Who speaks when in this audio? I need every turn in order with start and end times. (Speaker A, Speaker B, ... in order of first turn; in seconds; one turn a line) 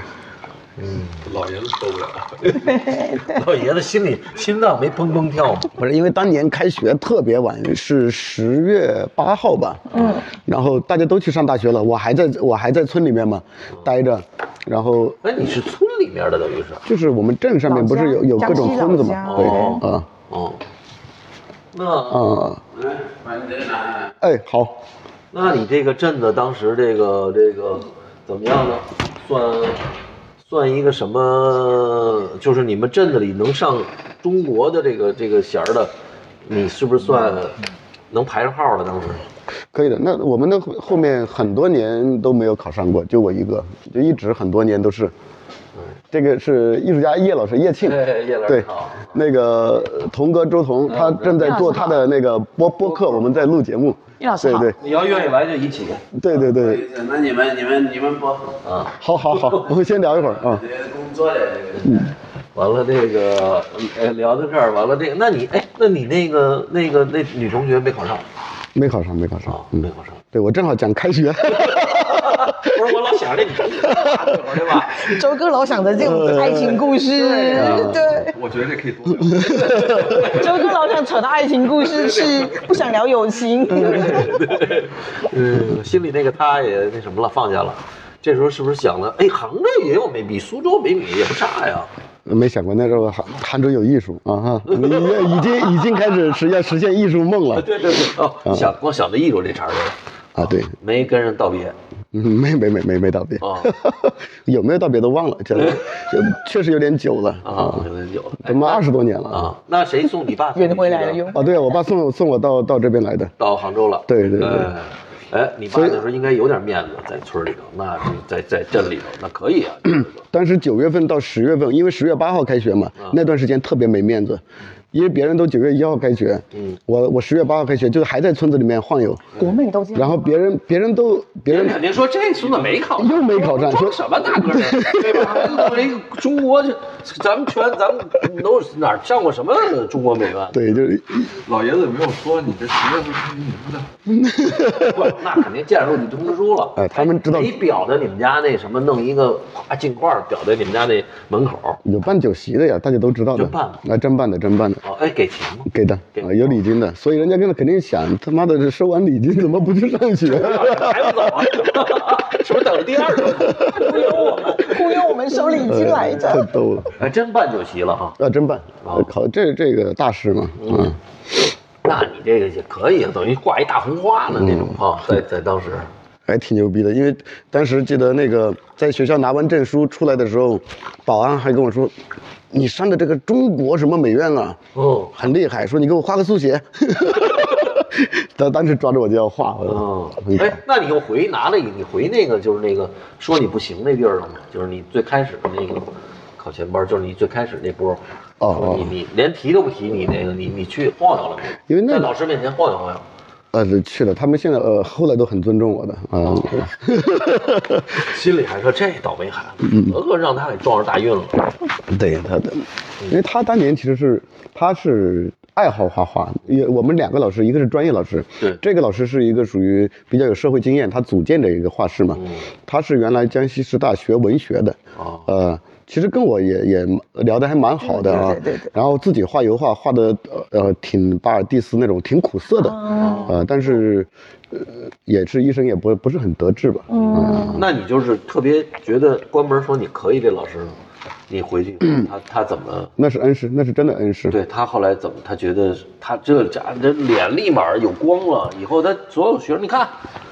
Speaker A: 0.8-1.2
Speaker B: 1.2-2.6
Speaker A: 2.5-5.7
Speaker C: 2.8-3.2
Speaker D: 5.7-15.4
Speaker A: 9.9-10.2
Speaker A: 15.2-16.8
Speaker D: 16.8-20.1
Speaker C: 17.7-19.8
Speaker A: 19.2-20.6
Speaker A: 21.7-22.3
Speaker D: 22.1-22.6
Speaker E: 22.7-24.1
Speaker D: 24.2-24.8
Speaker A: 25.3-29.8
Speaker A: 30.4-35.9
Speaker A: 36.4-37.6
Speaker A: 38.1-39.2
Speaker D: 39.7-45.1
Speaker D: 46.1-54.8
Speaker A: 47.8-49.1
Speaker A: 50.9-51.7
Speaker C: 51.4-52.0
Speaker C: 54.2-54.7
Speaker A: 54.8-56.0
Speaker D: 56.1-56.9
Speaker E: 56.4-58.5
Speaker A: 58.6-59.7
Speaker D: 59.0-60.7
Speaker E: 60.5-61.9
Speaker A: 61.7-68.2
Speaker D: 68.7-72.5
Speaker A: 69.5-70.2
Speaker A: 71.5-75.2
Speaker D: 73.8-74.4
Speaker C: 75.0-78.3
Speaker D: 76.0-76.9
Speaker A: 77.0-77.9
Speaker D: 77.5-78.3
Speaker B: 77.5-80.8
Speaker D: 79.3-80.2
Speaker A: 79.4-80.7
Speaker C: 80.1-84.5
Speaker B: 81.8-82.8
Speaker A: 83.8-91.9
Speaker D: 92.2-97.8
Speaker A: 94.7-95.8
Speaker A: 97.5-101.8
Speaker D: 98.4-98.7
Speaker D: 100.3-100.7
Speaker D: 102.1-107.9
Speaker A: 103.4-103.7
Speaker A: 105.5-105.8
Speaker A: 107.4-111.3
Speaker D: 108.4-109.5
Speaker C: 110.5-111.7
Speaker D: 111.3-113.3
Speaker A: 113.4-120.2
Speaker D: 114.1-114.7
Speaker D: 115.7-116.0
Speaker D: 120.3-124.4
Speaker D: 124.9-129.3
Speaker A: 126.5-126.8
Speaker C: 129.3-130.3
Speaker D: 129.9-131.9
Speaker A: 131.5-140.7
Speaker D: 133.0-135.7
Speaker D: 140.5-141.4
Speaker B: 141.4-143.9
Speaker D: 144.1-145.1
Speaker A: 144.6-151.8
Speaker D: 146.8-147.6
Speaker D: 151.8-154.8
Speaker A: 153.3-153.8
Speaker A: 154.8-156.6
Speaker D: 155.7-162.0
Speaker A: 160.2-164.9
Speaker D: 163.1-164.0
Speaker C: 163.7-166.5
Speaker D: 165.5-166.9
Speaker A: 166.9-168.2
Speaker D: 168.2-171.0
Speaker A: 168.8-169.1
Speaker A: 170.6-170.9
Speaker A: 171.8-175.9
Speaker D: 174.3-175.2
Speaker D: 176.3-181.9
Speaker D: 182.5-184.6
Speaker A: 184.7-185.3
Speaker D: 185.2-190.6
Speaker A: 187.2-187.7
Speaker A: 189.6-203.0
Speaker D: 198.4-198.9
Speaker D: 201.7-202.1
Speaker D: 203.5-208.0
Speaker A: 206.2-206.7
Speaker A: 207.9-211.5
Speaker D: 209.7-209.9
Speaker D: 211.9-237.7
Speaker A: 222.1-222.5
Speaker A: 224.9-225.3
Speaker C: 227.8-228.7
Speaker C: 232.6-233.3
Speaker A: 233.0-233.4
Speaker C: 236.9-237.6
Speaker A: 236.9-240.8
Speaker A: 241.3-242.9
Speaker D: 243.0-244.4
Speaker A: 244.3-249.9